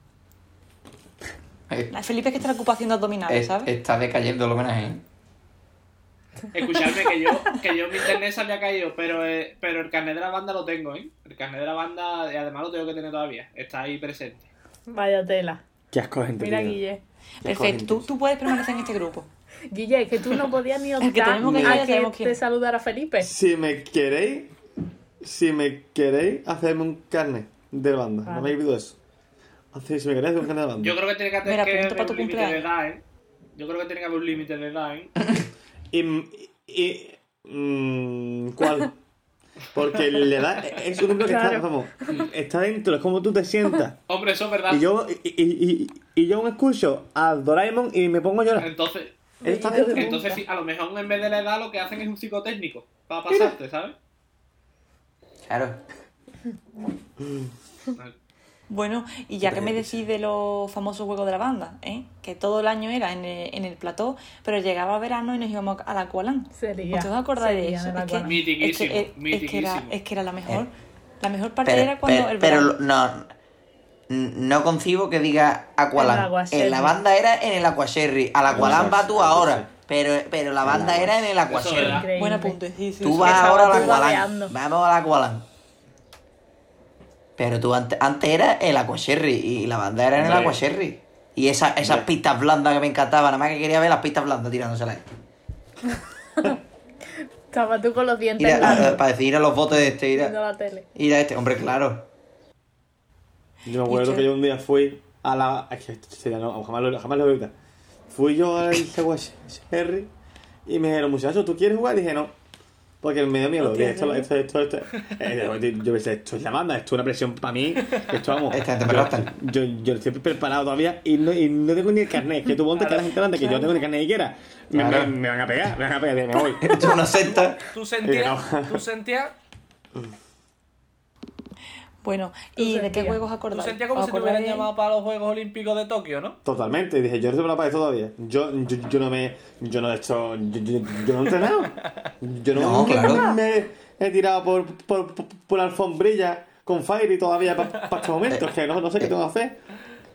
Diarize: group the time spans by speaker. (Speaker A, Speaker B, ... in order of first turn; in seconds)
Speaker A: 1.9-3.7, 17.4-19.3, 21.0-22.4, 31.4-32.7, 58.7-72.8, 82.2-84.1, 103.8-104.3, 113.6-114.3, 123.3-123.7, 132.0-134.7, 142.8-143.3
Speaker B: 3.3-5.0, 55.5-55.8, 71.7-73.3, 74.1-82.0, 83.0-85.4, 87.4-95.0, 98.4-100.3, 101.0-102.1, 118.5-119.3, 124.7-125.1, 126.6-127.6, 142.5-143.2
Speaker C: 6.5-14.5, 30.8-33.0, 33.5-35.1, 44.1-44.8, 48.6-49.2, 49.8-53.9, 68.2-69.9, 81.4-82.1, 122.7-123.1, 127.2-129.3, 133.5-136.4, 147.7-147.9
Speaker D: 14.9-15.6, 16.4-17.0, 19.7-23.3, 28.2-28.6, 41.2-41.7, 49.4-50.4, 66.5-68.4, 75.9-77.0, 81.7-82.6, 83.2-84.5, 97.5-99.0, 100.1-100.8, 132.6-133.2
Speaker E: 15.9-16.8, 17.4-18.1, 21.4-21.9, 23.2-24.5, 25.2-29.0, 29.7-31.0, 35.9-39.0, 39.7-44.0, 44.7-48.7, 49.4-50.2, 59.4-60.0, 78.5-79.7, 80.6-81.3, 90.2-90.6, 91.8-92.1, 103.7-107.5, 108.1-110.1, 110.7-112.3, 113.0-126.9, 128.0-128.8, 136.4-149.6